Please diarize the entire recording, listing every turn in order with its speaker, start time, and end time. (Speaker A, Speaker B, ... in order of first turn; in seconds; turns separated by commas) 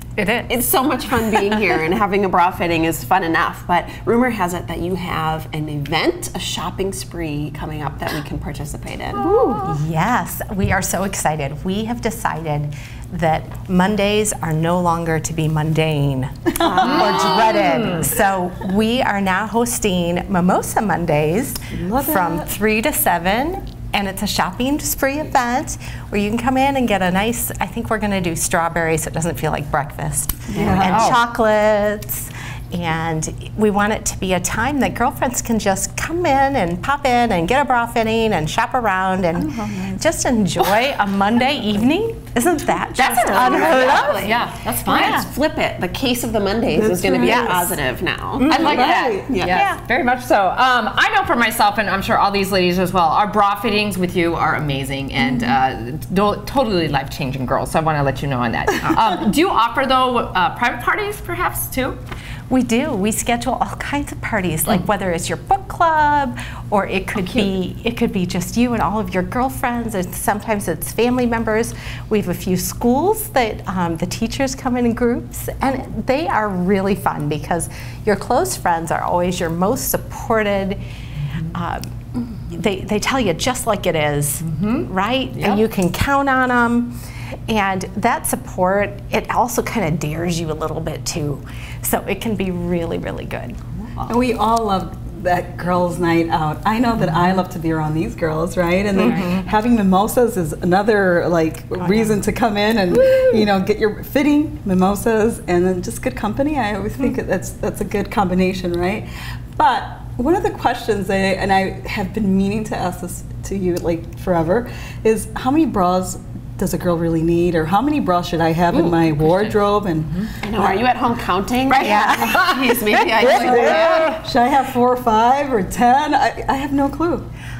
Speaker A: 0.2-0.6, Speaker B: 0.5-9.4, Speaker A: 1.4-1.7, Speaker C: 9.3-9.6, Speaker A: 9.3-44.2, Speaker B: 16.6-17.6, Speaker C: 17.1-17.7, Speaker D: 21.8-22.5, Speaker D: 30.5-31.1, Speaker C: 30.6-31.2, Speaker D: 39.5-40.0, Speaker C: 43.0-45.3, Speaker B: 43.0-49.6, Speaker A: 44.9-45.3, Speaker D: 46.7-47.7, Speaker A: 47.2-47.8, Speaker C: 48.4-62.0, Speaker D: 48.5-49.3, Speaker A: 49.5-49.8, Speaker A: 55.2-55.5, Speaker A: 62.5-80.8, Speaker A: 81.5-87.0, Speaker C: 84.4-85.6, Speaker A: 87.5-93.6, Speaker D: 94.0-120.7, Speaker A: 99.0-99.5, Speaker A: 101.8-102.2, Speaker C: 118.8-119.6, Speaker B: 120.4-124.2, Speaker C: 121.7-124.1, Speaker A: 121.8-122.3, Speaker D: 123.2-127.3